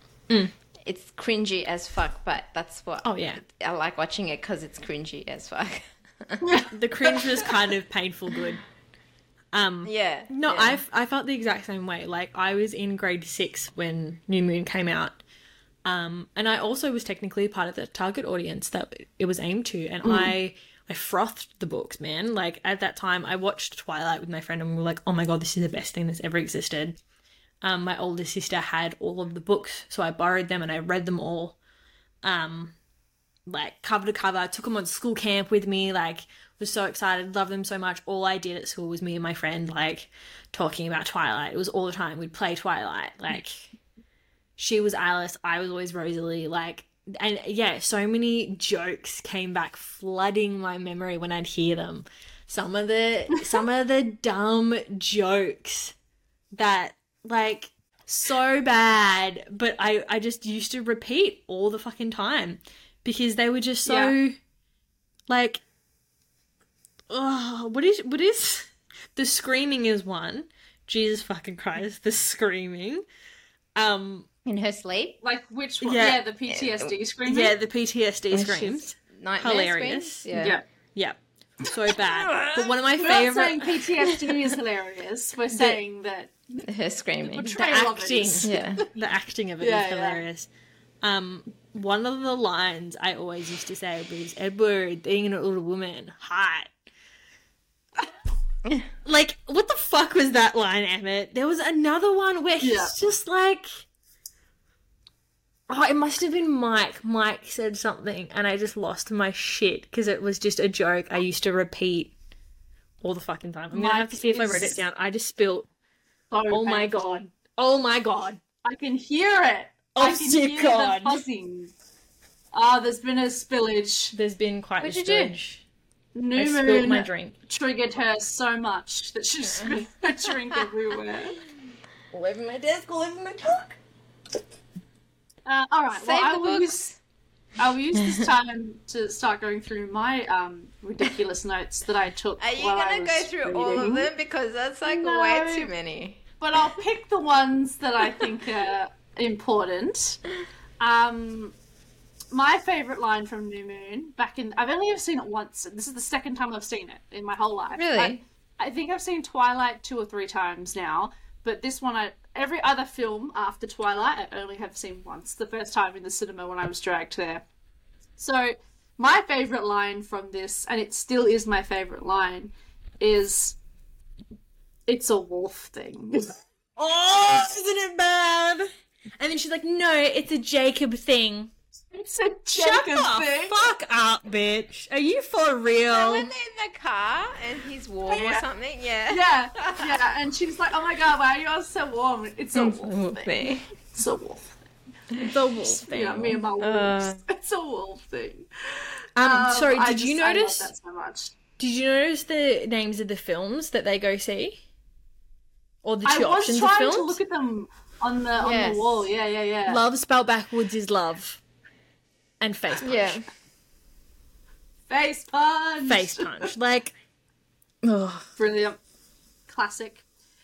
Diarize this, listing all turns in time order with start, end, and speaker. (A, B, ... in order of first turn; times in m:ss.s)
0:00.8-0:06.6 A
0:03.0-0:03.4 B
0:06.4-0:07.2 C
0:06.7-0:08.6 B
0:09.5-0:15.2 B
0:09.8-0:10.8 A
0:15.8-0:27.0 B
0:20.0-0:20.3 C
0:27.6-0:31.6 B
0:32.2-0:32.7 B
0:33.5-0:43.7 B
0:44.6-0:55.9 B
0:56.5-1:04.3 B
1:03.8-1:04.1 C
1:05.3-1:05.6 B
1:07.1-1:13.0 B
1:13.8-1:14.3 B
1:14.4-1:15.2 A
1:15.2-1:17.5 C
1:15.8-1:16.2 B
1:16.5-1:16.9 A
1:17.2-1:24.2 B
1:18.3-1:20.6 A
1:20.3-1:20.6 C
1:22.0-1:22.7 A
1:23.0-1:26.6 C
1:25.5-1:25.8 B
1:26.6-1:28.8 A
1:27.2-1:28.8 C
1:27.6-1:30.5 B
1:29.6-1:30.2 C
1:31.0-1:36.7 B
1:39.0-1:43.9 B
1:42.6-1:42.9 C
1:45.7-1:52.1 B
1:53.0-1:55.7 B
1:53.7-1:54.8 C
1:56.3-1:57.2 C
1:56.5-1:58.4 B
1:58.6-2:01.7 C
1:59.9-2:01.2 B
2:02.5-2:04.1 C
2:04.1-2:05.6 B
2:04.8-2:05.3 C
2:06.1-2:11.4 C
2:06.4-2:07.4 B
2:12.1-2:13.8 B
2:15.4-2:16.9 C
2:15.9-2:17.0 A
2:17.6-2:24.1 C
2:22.4-2:26.2 A
2:24.8-2:25.7 C
2:26.4-2:30.2 C
2:30.8-2:31.5 C
2:32.3-2:47.4 C
2:37.7-2:38.2 A
2:48.2-2:53.6 C
2:54.9-2:56.3 C
2:56.8-2:58.7 B
2:59.2-3:01.5 B
3:01.9-3:03.7 C
3:02.5-3:06.3 B
3:05.9-3:10.0 A
3:08.1-3:08.4 C
3:09.1-3:14.5 C
3:12.5-3:13.7 A
3:15.2-3:16.4 B
3:15.6-3:21.3 C
3:16.6-3:17.2 A
3:19.2-3:20.7 B
3:21.6-3:24.6 B
3:25.8-3:27.2 B
3:26.0-3:29.8 C
3:28.4-3:28.9 A
3:29.6-3:31.4 B
3:32.4-3:33.2 B
3:32.8-3:33.2 A
3:34.9-3:36.5 C
3:35.8-3:36.9 B
3:37.8-3:38.3 B
3:38.4-3:38.8 C
3:39.5-3:40.0 C